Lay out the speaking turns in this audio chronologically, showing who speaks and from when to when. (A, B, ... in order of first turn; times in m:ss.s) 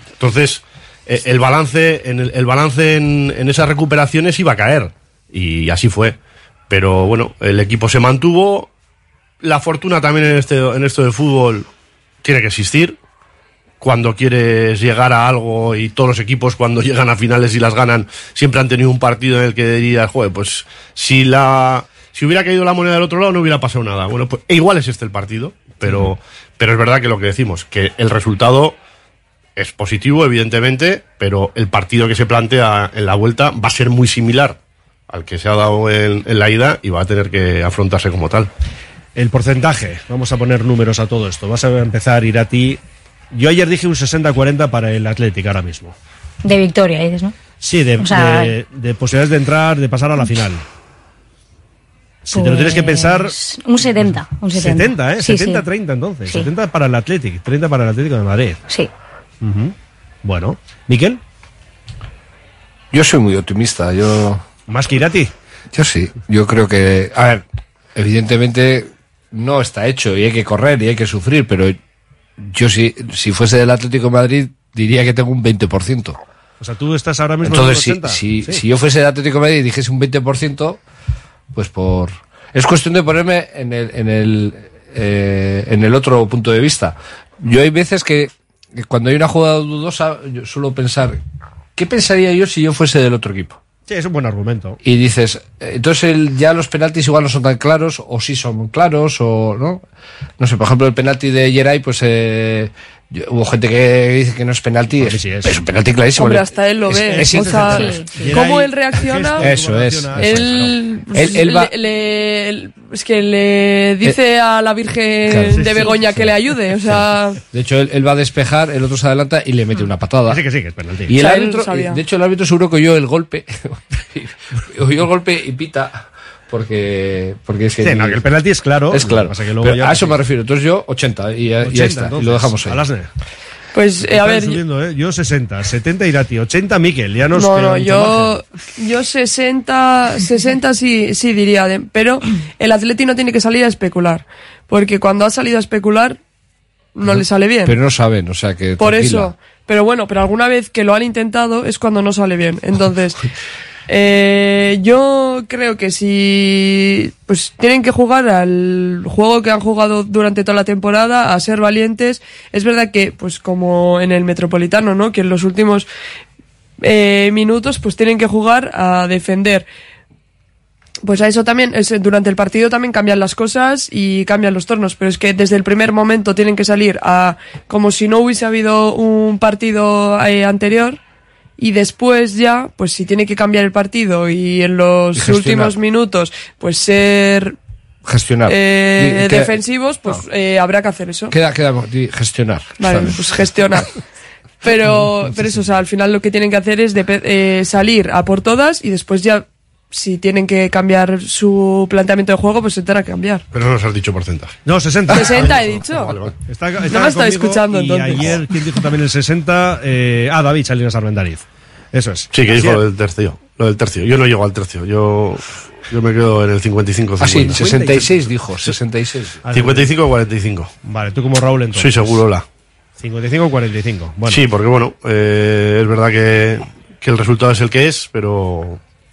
0:00.2-0:06.2 A
0:06.7-0:08.7 A
0:09.4-0:11.7 A
0:12.2-0:13.0 A
0:13.8-0:28.8 A
0:29.6-0:34.6 A
0:35.1-0:38.5 A
0:39.1-0:42.8 B
0:43.3-0:45.9 B
0:46.4-0:47.3 C
0:47.6-0:50.6 B
0:48.0-0:48.5 C
0:52.2-0:53.3 B
0:52.3-0:55.6 C
0:54.0-0:58.6 B
0:59.4-1:01.2 B
1:02.9-1:04.4 D
1:04.7-1:05.3 B
1:05.7-1:07.4 D
1:07.9-1:11.8 D
1:12.4-1:16.2 D
1:16.6-1:18.6 B
1:17.4-1:20.8 D
1:21.5-1:31.2 D
1:31.8-1:33.6 D
1:33.9-1:34.8 B
1:34.8-1:39.8 D
1:40.4-1:47.9 D
1:45.0-1:45.6 B
1:46.2-1:49.5 E
1:47.1-1:50.8 B
1:49.4-1:50.6 D
1:50.2-1:57.4 E
1:51.1-1:51.7 D
1:55.3-1:56.3 D
1:55.5-1:55.9 B
1:57.5-2:00.4 D
2:00.3-2:01.1 B
2:01.1-2:08.2 D
2:01.1-2:02.0 E
2:07.8-2:10.2 B
2:08.9-2:12.8 D
2:11.6-2:13.1 B
2:13.7-2:14.6 E
2:14.0-2:18.4 B
2:17.3-2:26.2 E
2:27.0-2:27.7 E
2:27.0-2:29.3 D
2:28.8-2:33.2 E
2:33.9-2:45.9 E
2:46.8-2:49.6 E
2:51.0-3:01.0 E
3:01.6-3:07.6 E
3:05.1-3:05.8 D
3:08.0-3:10.2 D
3:08.5-3:11.3 E
3:11.3-3:13.6 D
3:12.8-3:13.9 E
3:14.6-3:23.4 E
3:14.8-3:15.6 D
3:23.5-3:24.6 A
3:24.6-3:25.7 B
3:25.1-3:26.1 E
3:25.1-3:26.4 A
3:26.4-3:32.8 B
3:26.9-3:28.4 E
3:32.3-3:37.9 A
3:37.2-3:39.4 D
3:37.3-3:38.3 B
3:39.4-3:39.9 B
3:39.5-3:40.7 A
3:40.8-3:42.2 B
3:41.7-3:42.4 A
3:43.0-3:44.4 B
3:44.3-3:48.8 A